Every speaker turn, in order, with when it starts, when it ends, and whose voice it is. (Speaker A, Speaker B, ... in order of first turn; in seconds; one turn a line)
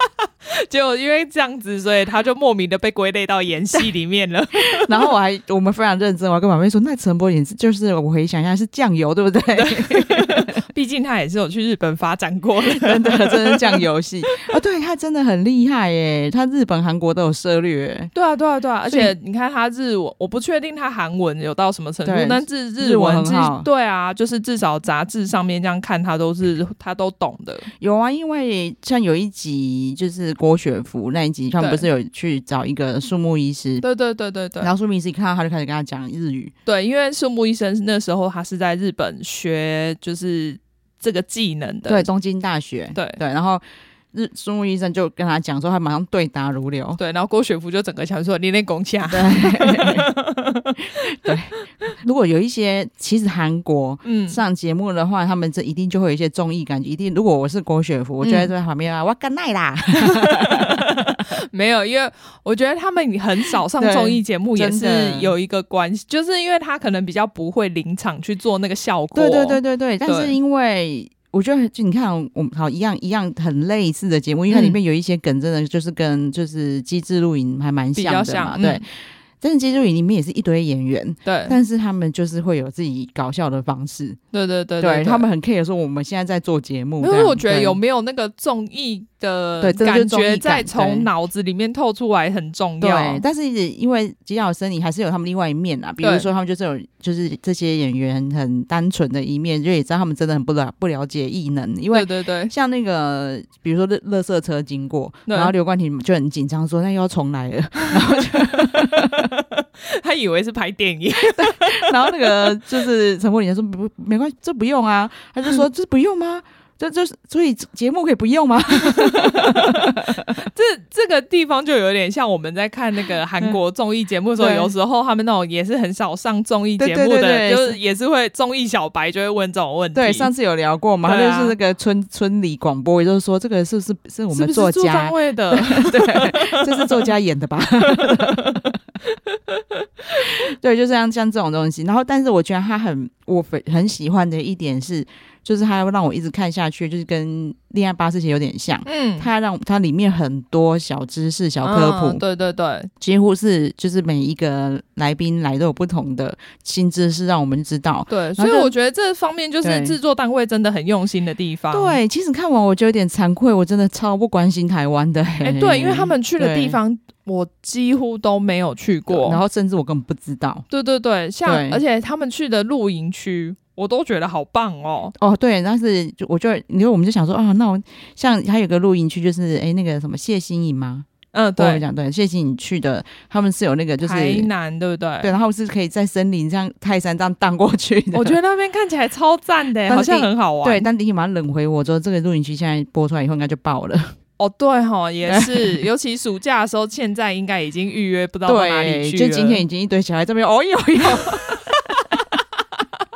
Speaker A: 0.5-5.1
Speaker B: 4.7-10.6
Speaker A: 9.6-14.4
Speaker B: 12.7-18.1
Speaker A: 18.1-27.7
Speaker B: 18.9-19.1
Speaker B: 22.1-23.7
Speaker B: 27.8-33.8
Speaker A: 31.6-31.9
Speaker A: 33.8-34.7
Speaker B: 34.6-36.5
Speaker A: 36.7-42.1
Speaker B: 41.9-43.6
Speaker A: 43.0-43.2
Speaker B: 44.1-47.0
Speaker A: 47.0-51.6
Speaker B: 49.1-50.1
Speaker B: 51.1-61.0
Speaker A: 54.0-54.4
Speaker A: 58.2-58.5
Speaker A: 60.0-70.4
Speaker B: 63.8-65.3
Speaker B: 69.1-78.9
Speaker A: 74.5-74.8
Speaker A: 78.0-78.8
Speaker B: 79.4-84.2
Speaker A: 81.2-81.6
Speaker A: 84.3-85.2
Speaker B: 84.8-87.8
Speaker A: 87.0-93.2
Speaker B: 89.6-91.1
Speaker B: 92.8-109.3
Speaker A: 96.0-96.3
Speaker A: 101.9-102.5
Speaker A: 105.3-105.5
Speaker A: 107.8-112.5
Speaker B: 111.2-120.4
Speaker A: 118.8-130.3
Speaker B: 124.4-124.7
Speaker B: 126.8-127.8
Speaker B: 129.9-138.8
Speaker A: 131.0-131.6
Speaker A: 134.3-137.1
Speaker A: 137.8-140.2
Speaker B: 140.2-152.2
Speaker A: 148.8-149.3
Speaker A: 151.6-152.9
Speaker B: 153.0-158.7
Speaker A: 158.1-162.0
Speaker B: 159.6-160.0
Speaker B: 161.7-166.8
Speaker A: 165.4-169.4
Speaker B: 169.1-170.7
Speaker A: 170.7-175.2
Speaker B: 171.5-171.8
Speaker B: 175.2-184.5
Speaker A: 181.3-181.8
Speaker A: 184.0-185.3
Speaker B: 185.2-188.4
Speaker A: 188.1-190.9
Speaker B: 189.9-194.1
Speaker A: 194.4-199.6
Speaker B: 195.3-195.8
Speaker B: 198.5-201.6
Speaker A: 201.2-202.0